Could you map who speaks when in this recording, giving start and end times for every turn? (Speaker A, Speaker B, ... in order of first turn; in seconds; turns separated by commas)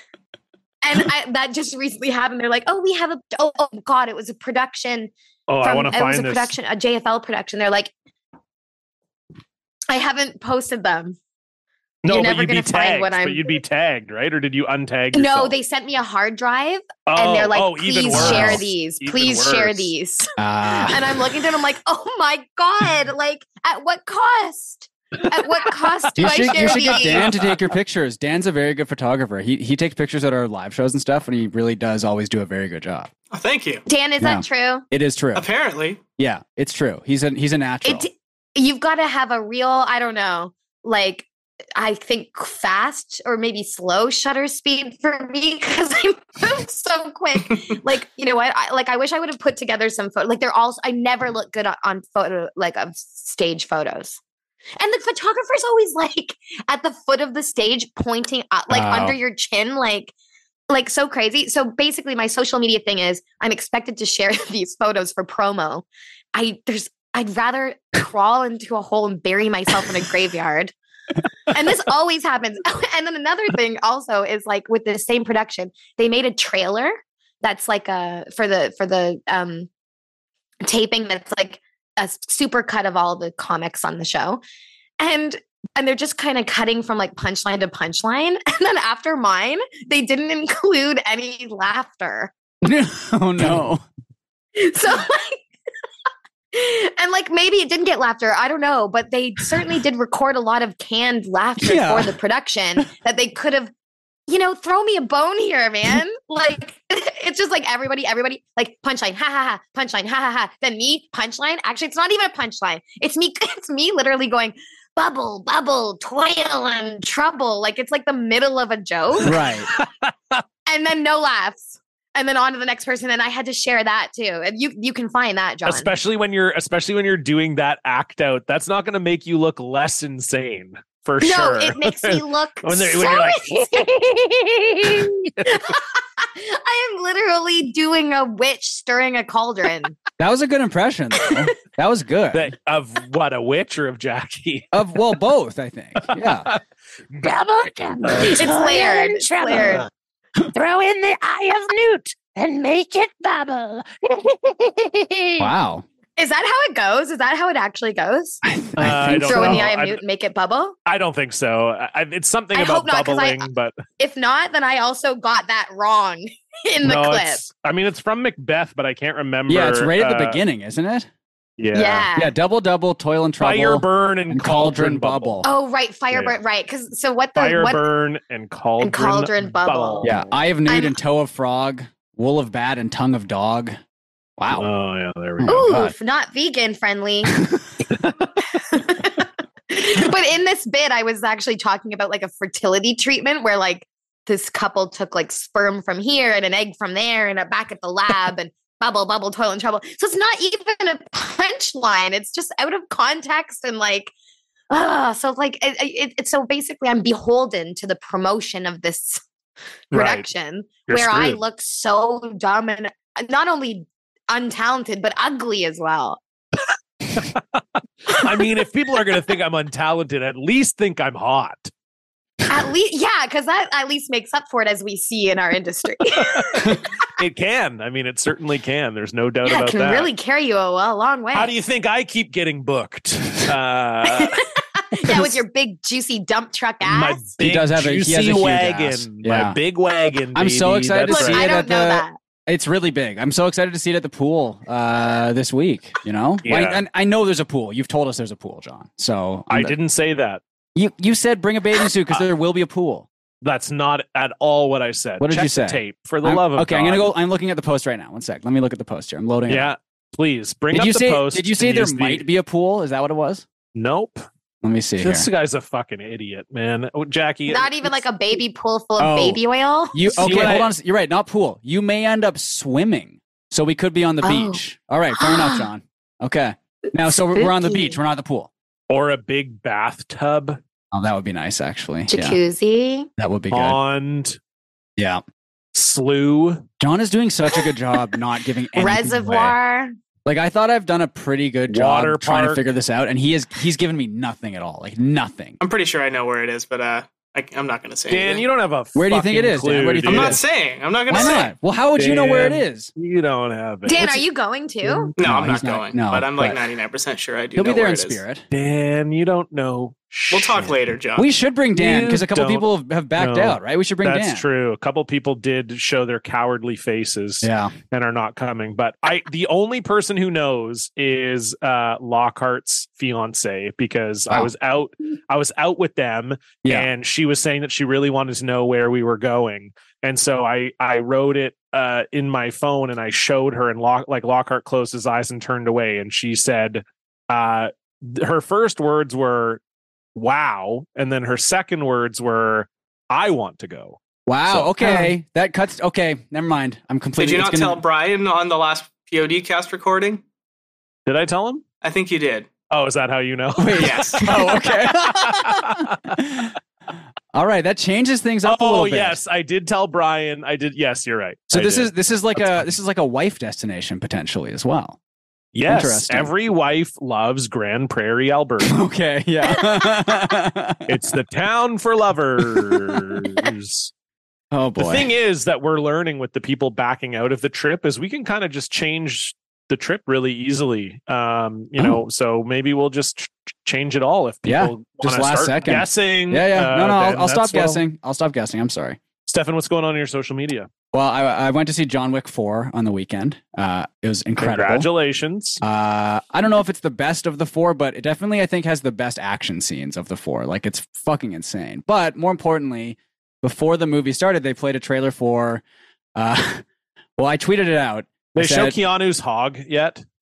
Speaker A: 0.8-7.9, Speaker B: 5.5-6.5, Speaker A: 9.9-11.2, Speaker B: 12.0-15.5, Speaker A: 12.1-13.6, Speaker A: 15.1-20.3, Speaker B: 17.1-19.9, Speaker C: 18.1-18.6, Speaker C: 20.4-21.1, Speaker A: 20.8-27.4, Speaker B: 25.8-27.6, Speaker C: 26.2-33.1, Speaker D: 33.3-33.8, Speaker A: 33.9-34.8, Speaker C: 34.2-35.5, Speaker D: 35.3-36.0, Speaker C: 36.2-38.1, Speaker A: 37.8-54.2, Speaker A: 54.8-60.1, Speaker C: 58.7-59.2, Speaker A: 60.7-70.7, Speaker A: 71.5-79.7, Speaker A: 80.6-84.4, Speaker A: 85.0-92.3, Speaker C: 92.6-93.8, Speaker A: 94.5-95.4, Speaker A: 96.5-103.7, Speaker C: 101.6-102.2, Speaker A: 104.3-119.3, Speaker C: 119.2-119.7, Speaker B: 119.3-120.4, Speaker A: 120.7-125.9, Speaker B: 125.7-133.4, Speaker A: 131.2-133.7, Speaker E: 133.4-135.3, Speaker A: 135.5-139.9, Speaker C: 140.2-142.5, Speaker B: 142.3-144.7, Speaker C: 144.7-146.5, Speaker B: 146.1-146.6, Speaker E: 147.2-149.9, Speaker A: 148.2-149.9, Speaker E: 150.5-155.5, Speaker C: 155.4-155.8, Speaker A: 156.2-158.4, Speaker C: 158.4-159.7, Speaker B: 158.8-160.0, Speaker A: 159.0-160.8, Speaker B: 160.8-163.8, Speaker A: 162.5-163.4, Speaker A: 164.0-167.4, Speaker B: 166.8-170.4, Speaker C: 169.5-171.1, Speaker B: 171.6-172.1, Speaker A: 171.7-172.3, Speaker C: 172.1-175.5, Speaker B: 173.4-175.4, Speaker A: 175.4-177.8, Speaker B: 176.1-176.4, Speaker B: 177.3-180.3, Speaker A: 178.8-180.1, Speaker C: 180.0-183.8, Speaker A: 180.7-180.9, Speaker C: 184.4-184.7, Speaker B: 184.5-185.7, Speaker C: 185.4-185.9, Speaker A: 185.4-187.3, Speaker B: 187.9-188.3, Speaker A: 188.5-204.1, Speaker A: 204.7-209.2, Speaker A: 209.9-216.2, Speaker B: 209.9-210.3, Speaker B: 210.9-211.4, Speaker B: 217.1-221.7, Speaker A: 222.5-226.8, Speaker B: 226.2-230.1, Speaker A: 229.4-231.5, Speaker B: 231.3-234.4, Speaker A: 234.1-237.2, Speaker B: 235.1-235.3, Speaker B: 236.8-241.5, Speaker C: 237.4-239.6, Speaker C: 240.3-249.8, Speaker A: 241.1-242.2, Speaker B: 246.4-246.8, Speaker B: 249.5-250.4, Speaker C: 250.7-253.1, Speaker B: 253.4-257.1, Speaker C: 255.2-259.7, Speaker B: 259.5-262.3, Speaker C: 260.7-263.4, Speaker B: 263.7-264.2, Speaker C: 264.6-265.3, Speaker B: 265.0-267.9, Speaker A: 267.5-270.6, Speaker C: 269.0-269.4, Speaker C: 269.9-278.5, Speaker B: 270.1-270.7, Speaker A: 274.2-274.6, Speaker A: 275.1-275.7, Speaker A: 277.3-278.0, Speaker B: 278.9-280.6, Speaker C: 280.9-282.4, Speaker A: 282.1-283.1, Speaker C: 283.2-283.8, Speaker B: 283.5-284.4, Speaker C: 285.0-285.2, Speaker B: 285.7-286.6, Speaker C: 286.8-289.5, Speaker A: 288.8-289.9, Speaker C: 290.2-295.6, Speaker B: 291.7-292.6, Speaker D: 295.6-298.4, Speaker B: 298.1-300.4, Speaker C: 298.9-300.4, Speaker D: 300.1-301.5, Speaker C: 301.1-302.9, Speaker B: 301.9-304.2, Speaker A: 303.8-305.1, Speaker C: 304.9-306.6, Speaker D: 305.2-308.2, Speaker C: 307.6-308.4, Speaker B: 308.5-310.8, Speaker D: 310.3-311.3, Speaker C: 311.1-314.4, Speaker B: 311.8-339.6, Speaker C: 317.4-317.7, Speaker C: 326.6-326.9, Speaker B: 340.1-345.1, Speaker C: 344.2-347.8, Speaker D: 347.2-350.2, Speaker B: 351.1-351.6, Speaker D: 351.8-352.5, Speaker B: 352.7-356.1, Speaker C: 353.6-356.5, Speaker D: 353.8-354.4, Speaker C: 357.3-359.2, Speaker B: 358.4-362.7, Speaker C: 361.5-365.0, Speaker B: 365.5-368.8, Speaker C: 365.6-366.3, Speaker C: 368.7-371.0, Speaker B: 370.9-373.9, Speaker C: 372.6-372.9, Speaker C: 374.5-375.1, Speaker B: 374.8-387.8, Speaker C: 384.4-389.0, Speaker B: 389.2-390.7, Speaker C: 390.9-394.9, Speaker B: 394.4-395.6, Speaker C: 395.6-405.6, Speaker C: 406.1-406.6, Speaker C: 407.2-408.8, Speaker B: 408.3-410.0